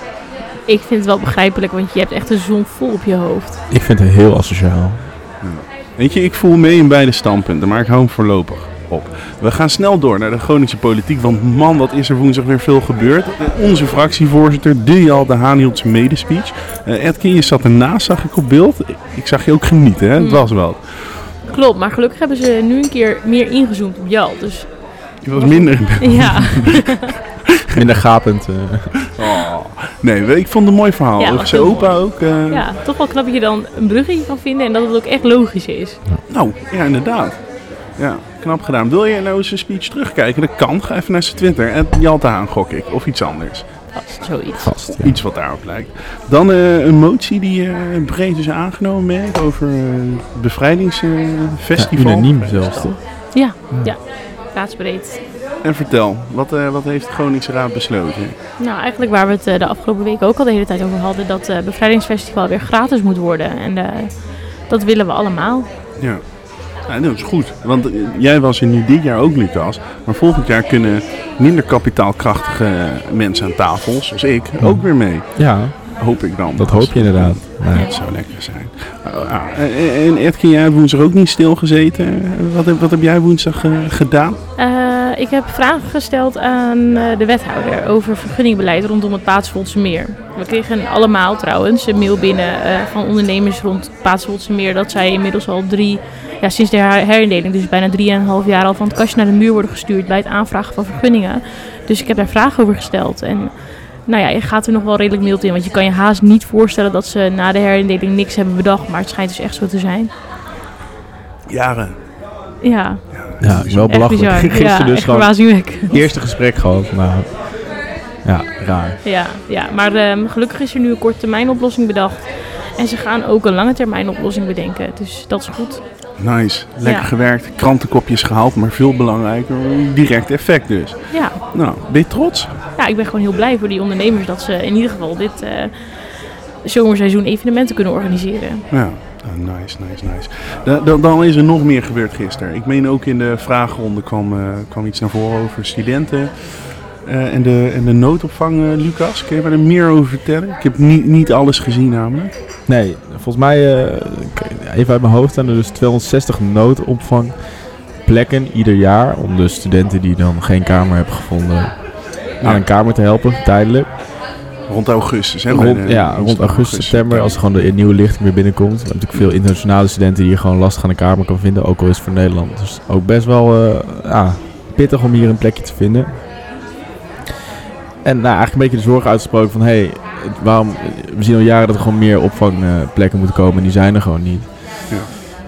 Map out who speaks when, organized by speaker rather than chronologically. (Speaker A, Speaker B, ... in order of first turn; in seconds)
Speaker A: 0.7-3.6, 20.2-20.5, 21.5-26.9, 31.2-36.0, 43.9-44.8, 53.3-55.2, 58.6-65.7, 84.6-110.1, 112.6-116.0, 119.0-125.8, 126.8-127.1, 131.1-131.4, 132.8-138.6
Speaker B: 3.7-5.0, 27.7-29.0, 44.6-45.2, 51.7-53.9, 74.6-77.9, 113.4-119.0, 152.7-163.9, 165.5-176.2, 178.0-184.5
Speaker C: 5.4-21.2, 25.2-27.0, 29.1-32.6, 36.3-43.7, 45.0-53.0, 55.6-58.3, 66.0-84.4, 111.5-112.0, 113.1-114.3, 126.2-132.5, 138.7-152.3, 162.4-162.7, 164.7-167.4